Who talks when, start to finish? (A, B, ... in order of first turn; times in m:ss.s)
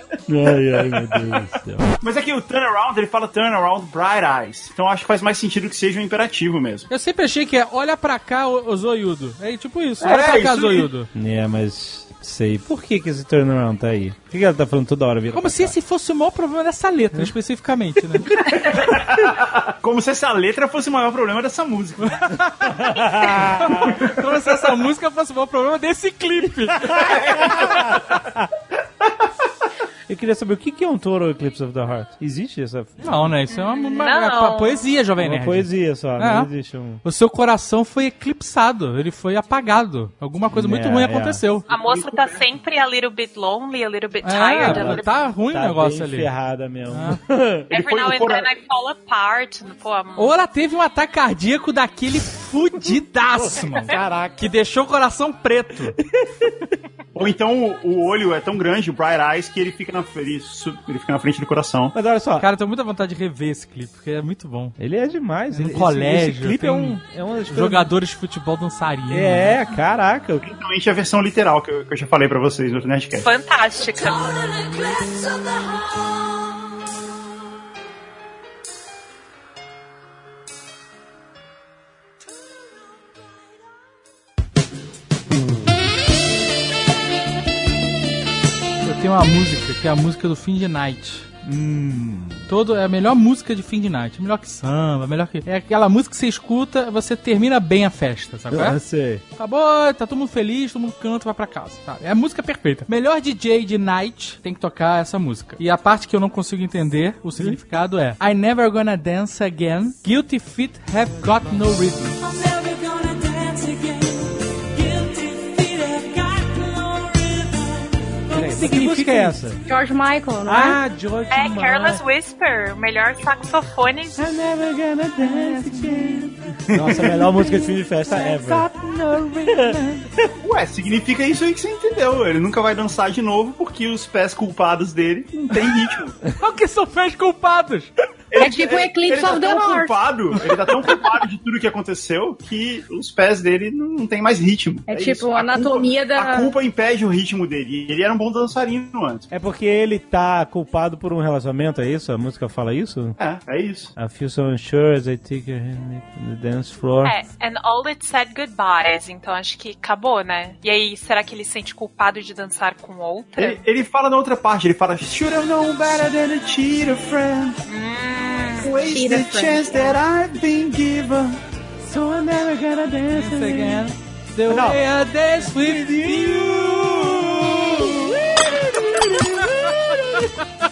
0:00.3-0:01.9 A
0:02.0-0:06.9 B
0:06.9-0:11.1 C
0:10.0-0:10.9 B
0:11.1-0:15.8 A
0:15.3-0:18.4 C
0:18.4-0:22.4 B
0:22.0-0:22.8 C
0:22.7-0:24.0 A
0:23.8-0:28.0 C
0:23.8-0:24.2 B
0:26.9-0:28.4 A
0:27.0-0:27.9 B
0:30.1-0:33.4 A
0:33.0-0:36.5 C
0:33.5-0:34.8 D
0:35.2-0:37.0 A
0:37.0-0:41.7 C
0:40.5-0:41.4 A
0:41.7-0:45.2 D
0:44.2-0:46.3 C
0:44.6-0:47.7 A
0:46.9-0:47.2 C
0:47.7-0:50.4 D
0:47.7-0:48.5 B
0:50.2-0:56.0 C
0:53.3-0:54.5 A
0:56.2-0:56.6 A
0:57.2-1:02.0 B
1:01.9-1:02.5 A
1:02.4-1:04.8 C
1:04.8-1:07.9 A
1:05.5-1:09.6 C
1:09.1-1:10.4 A
1:10.4-1:13.3 B
1:13.2-1:14.6 D
1:28.8-1:31.3 C
1:31.4-1:32.4 A
1:32.5-1:38.8 C
1:38.5-1:39.2 A
1:39.4-1:59.4 C
1:58.3-1:59.6 A
1:59.7-2:00.8 E
2:00.5-2:02.0 A
2:01.3-2:04.2 D
2:04.2-2:08.7 A
2:05.3-2:06.3 C
2:06.7-2:07.3 B
2:08.1-2:10.1 C
2:09.4-2:10.3 A
2:10.4-2:16.2 B
2:16.3-2:17.9 C
2:18.3-2:29.3 B
2:18.4-2:20.0 E
2:24.9-2:26.5 E
2:29.3-2:33.2 A
2:33.2-2:33.9 B
2:34.0-2:37.2 A
2:37.0-2:43.6 D
2:43.4-2:47.6 B
2:47.7-2:48.7 D
2:48.6-2:51.4 B
2:48.6-2:49.9 E
2:51.8-2:53.9 A
2:53.1-2:58.0 C
2:54.5-2:54.8 A
2:55.4-3:00.3 A